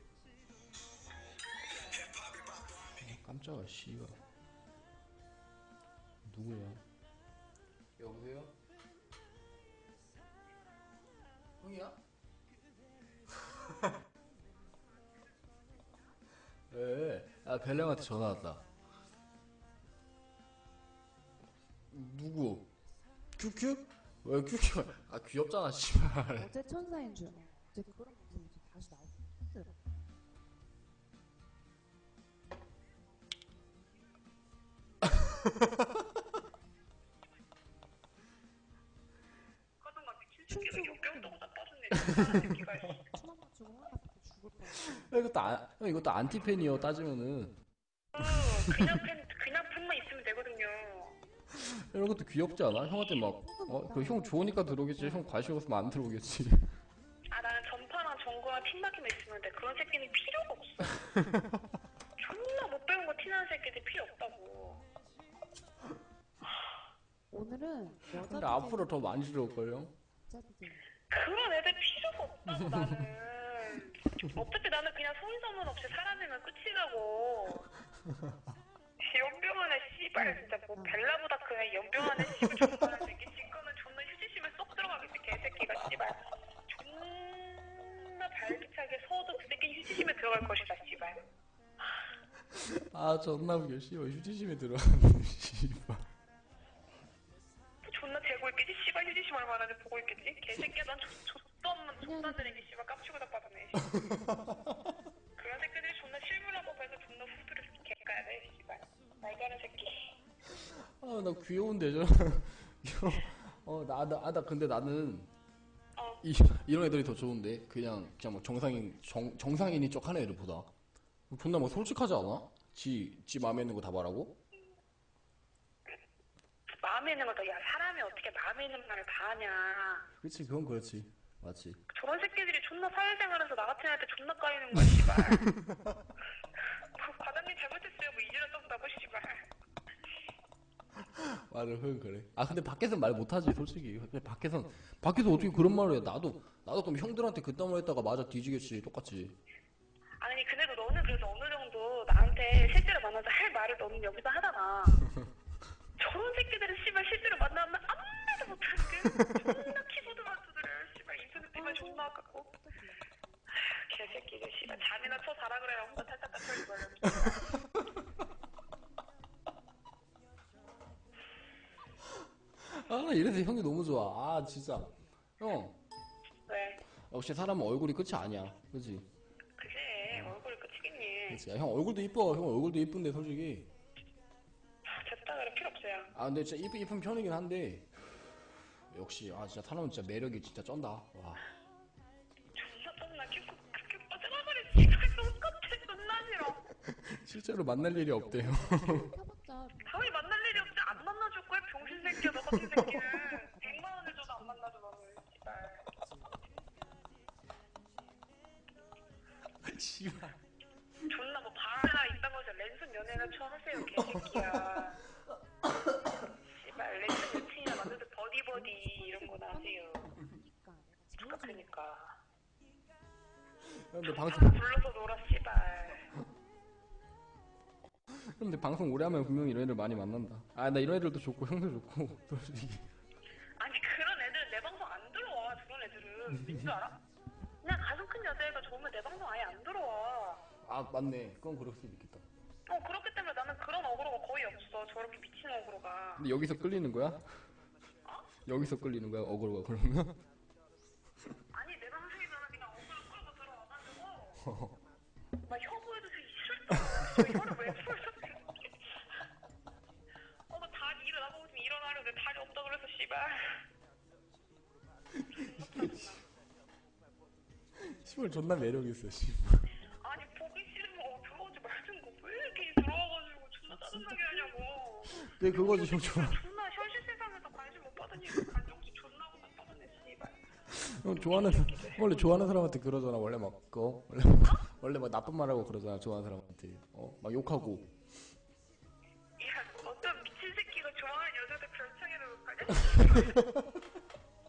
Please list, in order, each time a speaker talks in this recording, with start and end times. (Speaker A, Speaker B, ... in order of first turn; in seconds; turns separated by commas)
Speaker A: 2.9-4.2, Speaker A: 6.2-6.8, Speaker A: 8.0-8.5, Speaker A: 11.6-12.0, Speaker A: 16.7-18.6, Speaker A: 21.9-22.7, Speaker A: 23.4-26.5, Speaker B: 26.3-29.8, Speaker C: 39.8-43.0, Speaker B: 40.5-41.4, Speaker B: 43.0-45.2, Speaker A: 44.7-47.6, Speaker C: 48.1-51.2, Speaker A: 48.2-48.9, Speaker A: 51.5-56.8, Speaker B: 53.2-55.4, Speaker C: 57.3-61.0, Speaker C: 62.2-64.8, Speaker B: 67.3-68.9, Speaker A: 68.2-69.9, Speaker B: 70.3-70.9, Speaker C: 71.0-77.7, Speaker A: 72.5-72.9, Speaker C: 79.0-91.2, Speaker B: 80.2-81.1, Speaker A: 92.5-96.1, Speaker C: 97.8-104.0, Speaker B: 102.0-102.7, Speaker A: 103.9-104.6, Speaker C: 105.4-110.1, Speaker A: 110.5-115.3, Speaker C: 116.0-116.2, Speaker A: 116.2-120.7, Speaker A: 121.3-124.3, Speaker C: 126.8-130.1, Speaker A: 130.2-131.8, Speaker C: 131.9-135.5, Speaker A: 135.2-135.6, Speaker C: 136.9-139.5, Speaker A: 141.0-149.3, Speaker C: 150.2-155.1, Speaker C: 156.0-162.5, Speaker B: 161.3-163.2, Speaker C: 163.6-167.5, Speaker B: 164.0-165.2, Speaker A: 167.3-167.6, Speaker A: 172.6-175.8, Speaker C: 176.5-176.8, Speaker A: 177.1-179.1, Speaker C: 179.6-181.4, Speaker A: 180.1-180.4, Speaker A: 181.3-183.7, Speaker C: 184.9-186.1, Speaker A: 186.2-187.9, Speaker A: 188.9-191.4, Speaker C: 192.5-196.7, Speaker A: 196.9-199.1, Speaker B: 197.9-202.3, Speaker C: 199.9-205.9, Speaker A: 202.4-202.9, Speaker B: 203.1-204.7, Speaker B: 205.8-206.5, Speaker A: 209.6-210.4, Speaker C: 211.1-215.0, Speaker B: 213.1-213.5, Speaker A: 213.9-214.6, Speaker C: 216.5-220.2, Speaker B: 218.5-221.7, Speaker C: 221.2-222.2, Speaker A: 223.6-224.6, Speaker C: 224.0-226.1, Speaker A: 228.1-232.9, Speaker C: 233.6-237.0, Speaker C: 237.6-240.4, Speaker A: 240.6-242.2, Speaker C: 242.7-246.3, Speaker A: 246.2-247.2, Speaker C: 248.1-248.3, Speaker A: 248.4-250.2, Speaker C: 251.5-254.4, Speaker A: 254.4-254.7, Speaker C: 255.4-259.1, Speaker C: 260.5-263.7, Speaker A: 265.2-265.9, Speaker C: 265.3-266.2, Speaker A: 267.8-269.7, Speaker C: 269.9-280.5, Speaker B: 273.7-274.6, Speaker A: 275.1-276.4, Speaker A: 280.7-287.9, Speaker C: 281.1-282.1, Speaker C: 289.4-293.4